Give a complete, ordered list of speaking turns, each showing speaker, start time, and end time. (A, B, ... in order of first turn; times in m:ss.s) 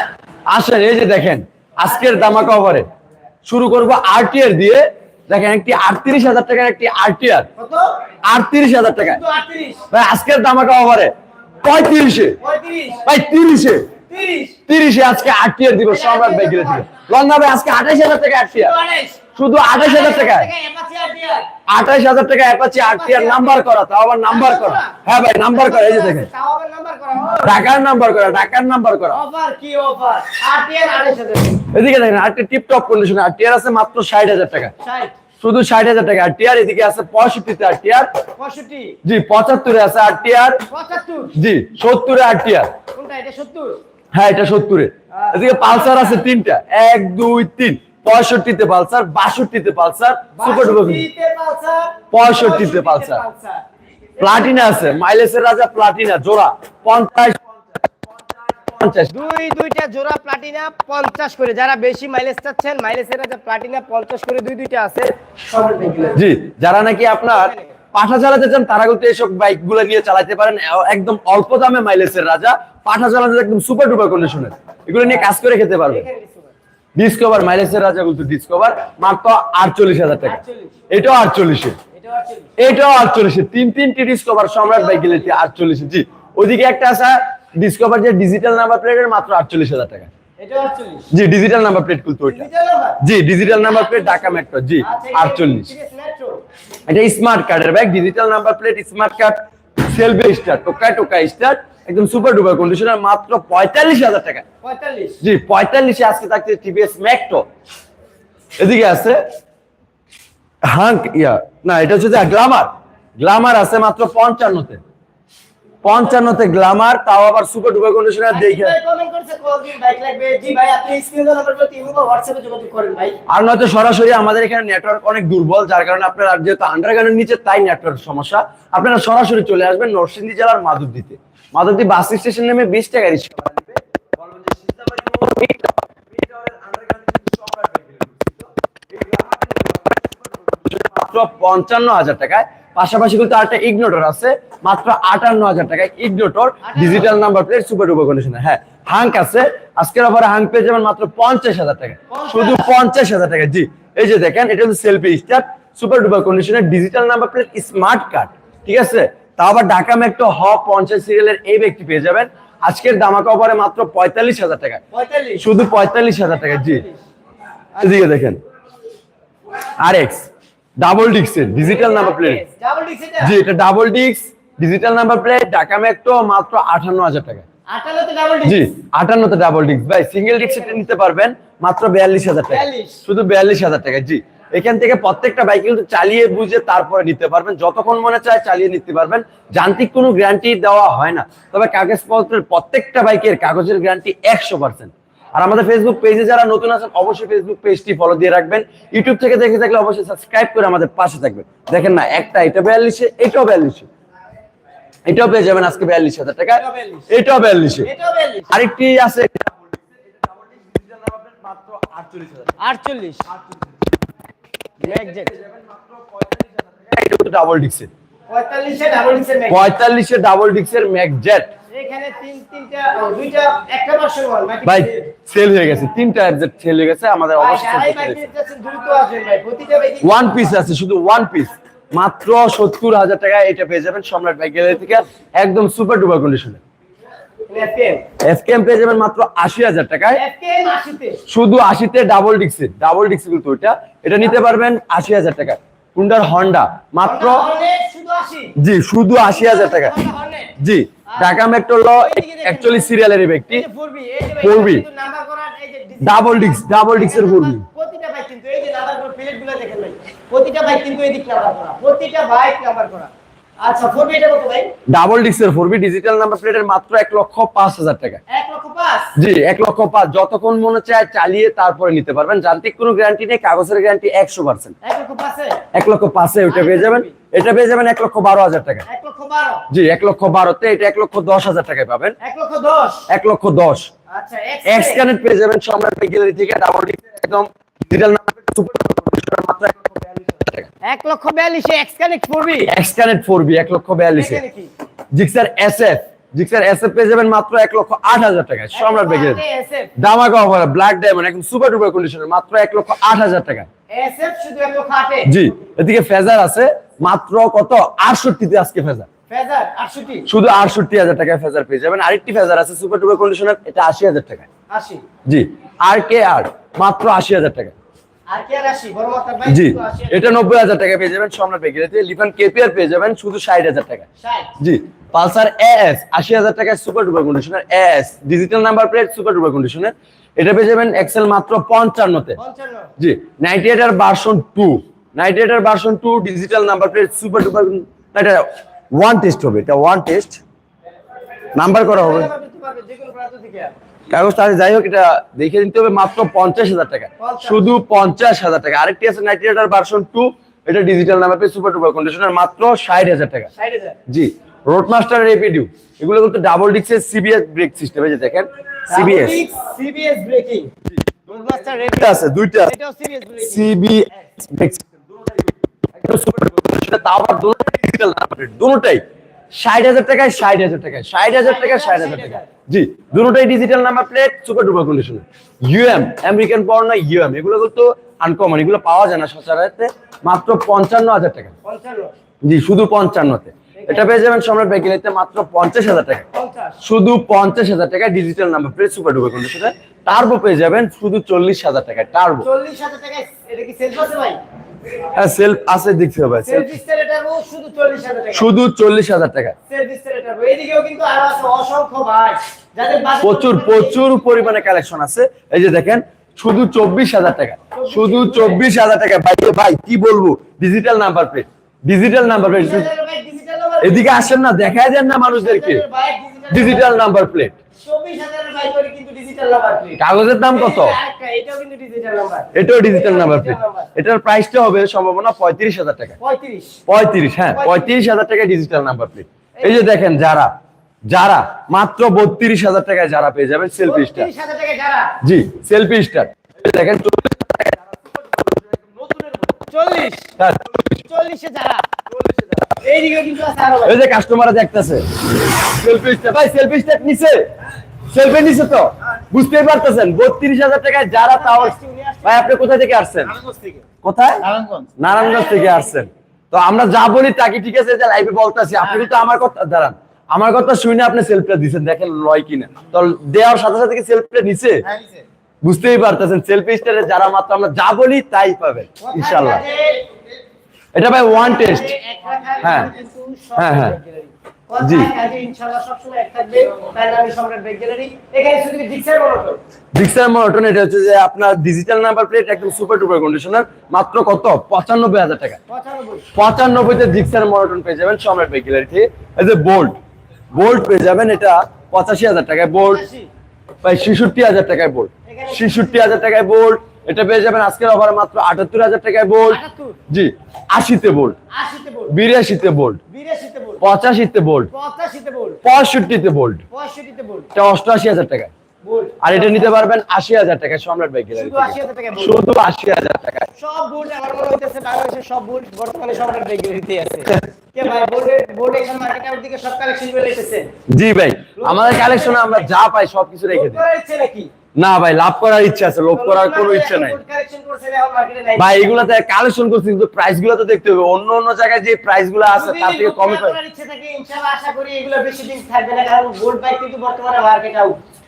0:00.5-0:02.9 A
0:01.8-0:02.6 B
0:03.4-0:07.5 A
0:07.6-0:08.0 B
0:08.2-0:09.2 A
0:09.0-0:09.8 B
0:09.9-0:12.4 A
0:12.4-0:13.1 B
0:13.0-0:13.9 A
0:14.1-0:14.6 B
0:14.7-0:18.7 A
0:15.8-0:16.9 B
0:18.5-0:21.5 B
0:19.4-0:20.5 A
0:21.7-0:26.3 A
0:22.8-0:23.7 B
0:24.3-0:25.0 B
0:25.5-0:27.7 B
0:27.4-0:29.2 A
0:29.1-0:31.6 B
0:31.7-0:34.7 A
0:34.8-0:35.1 B
0:35.4-0:38.1 A
0:38.4-0:39.0 B
0:39.0-0:40.6 A
0:40.7-0:41.3 B
0:41.3-0:42.8 A
0:42.9-0:43.8 B
0:44.1-0:51.0 A
0:45.1-0:46.2 B
0:50.4-0:53.6 B
0:52.1-0:53.2 A
0:54.2-0:54.8 B
0:54.2-0:57.9 A
0:58.5-0:59.2 A
0:59.1-1:06.2 B
1:06.1-1:16.0 A
1:07.2-1:07.8 B
1:15.8-1:16.5 B
1:17.0-1:20.4 A
1:20.2-1:20.7 B
1:20.9-1:21.8 A
1:21.9-1:22.6 B
1:22.6-1:30.1 A
1:24.7-1:25.3 B
1:30.4-1:31.1 B
1:31.1-1:32.4 A
1:32.3-1:36.4 B
1:33.0-1:35.7 A
1:36.9-1:44.4 A
1:44.6-1:45.2 B
1:45.2-1:47.4 A
1:48.6-1:49.2 A
1:50.6-1:54.8 A
1:55.8-1:58.7 A
1:58.3-2:03.2 B
2:03.3-2:44.8 A
2:26.6-2:27.1 B
2:32.1-2:32.7 B
2:44.9-2:47.0 B
2:45.4-2:46.8 A
2:47.8-2:48.0 B
2:47.8-2:48.4 A
2:49.8-2:50.3 A
2:50.8-2:52.4 A
2:51.5-2:53.3 B
2:53.2-2:57.4 A
2:57.7-2:58.6 B
2:58.4-3:23.9 A
3:00.4-3:00.8 B
3:02.5-3:03.0 B
3:25.0-3:27.9 A
3:26.6-3:27.1 B
3:27.8-3:28.6 B
3:28.5-3:32.6 A
3:32.6-3:33.2 B
3:34.8-3:35.3 B
3:34.8-3:37.9 A
3:38.3-3:39.7 B
3:39.5-3:41.5 A
3:41.7-3:45.1 B
3:44.6-3:48.2 A
3:47.3-3:50.6 B
3:50.0-3:56.6 A
3:57.5-3:58.0 B
3:58.2-4:00.2 A
4:00.1-4:01.2 B
4:01.3-4:07.4 A
4:07.0-4:08.5 B
4:08.6-4:09.9 A
4:09.2-4:10.5 B
4:10.6-4:13.6 A
4:11.1-4:12.9 B
4:13.5-4:24.7 B
4:14.4-4:14.8 A
4:16.0-4:17.6 A
4:24.9-4:28.2 A
4:28.3-4:29.1 B
4:29.2-4:34.7 A
4:34.8-4:35.6 B
4:35.7-4:38.8 A
4:36.4-4:37.1 B
4:38.9-4:39.6 B
4:39.7-4:42.2 A
4:42.2-4:43.0 B
4:43.1-4:43.9 A
4:44.1-4:45.0 B
4:44.6-4:50.7 A
4:50.8-4:52.7 B
4:52.7-4:54.4 A
4:54.1-4:54.7 B
4:55.1-4:59.4 A
4:58.7-4:59.9 B
5:00.0-5:03.7 A
5:03.9-5:05.3 B
5:05.2-5:09.1 A
5:09.3-5:10.3 B
5:10.2-5:14.5 A
5:14.7-5:15.0 B
5:15.2-5:17.7 A
5:18.3-5:20.4 B
5:19.4-5:24.1 A
5:24.2-5:24.5 B
5:24.6-5:32.4 A
5:32.4-5:32.9 B
5:33.0-5:40.4 A
5:41.5-5:42.3 A
5:41.6-5:43.7 B
5:44.1-5:53.5 A
5:47.2-5:47.7 B
5:53.6-5:54.0 B
5:54.1-5:59.4 A
5:58.9-6:00.7 B
6:00.9-6:02.7 A
6:01.3-6:03.7 B
6:03.4-6:21.5 A
6:11.3-6:12.5 B
6:21.6-6:22.1 B
6:22.4-6:26.2 A
6:23.8-6:24.1 B
6:26.3-6:26.8 B
6:26.8-6:32.5 A
6:32.4-6:34.4 B
6:35.1-6:36.7 A
6:36.4-6:38.5 B
6:38.3-6:39.5 A
6:39.7-6:44.2 B
6:43.2-6:52.9 A
6:47.7-6:48.7 B
6:52.4-6:54.2 B
6:53.8-6:55.8 A
6:55.3-6:57.0 B
6:56.5-6:57.5 A
6:57.8-7:03.9 B
7:00.0-7:01.0 A
7:02.5-7:06.2 A
7:06.2-7:06.8 B
7:06.9-7:10.5 A
7:07.5-7:07.9 B
7:09.6-7:09.9 B
7:11.1-7:14.3 A
7:13.8-7:15.2 B
7:15.2-7:19.6 A
7:19.7-7:20.3 B
7:20.4-7:21.0 A
7:21.0-7:21.9 B
7:22.0-7:22.8 A
7:22.8-7:24.0 B
7:23.8-7:27.5 A
7:28.1-7:33.4 A
7:31.1-7:32.6 B
7:34.0-7:44.8 A
7:35.4-7:35.7 B
7:45.6-7:49.6 A
7:49.0-7:50.0 B
7:50.9-7:51.9 A
7:51.1-7:59.6 B
7:52.6-7:52.9 A
7:53.6-7:54.0 A
7:54.8-7:55.1 A
7:59.9-8:05.6 A
8:05.7-8:06.3 B
8:06.3-8:09.9 A
8:10.5-8:13.0 A
8:12.8-8:13.3 B
8:13.8-8:21.4 A
8:15.3-8:16.2 B
8:19.4-8:20.0 B
8:21.5-8:22.2 B
8:22.1-8:23.0 A
8:23.1-8:23.8 B
8:23.8-8:24.7 A
8:24.7-8:25.6 B
8:25.6-8:26.6 A
8:26.7-8:27.5 B
8:27.5-8:28.5 A
8:28.8-8:29.9 B
8:29.2-8:33.4 A
8:31.3-8:32.4 B
8:33.6-8:40.7 B
8:40.9-8:43.8 A
8:41.6-8:42.7 B
8:43.5-8:44.5 B
8:44.8-8:47.2 A
8:46.1-8:49.0 B
8:48.6-8:53.6 A
8:52.5-8:58.0 B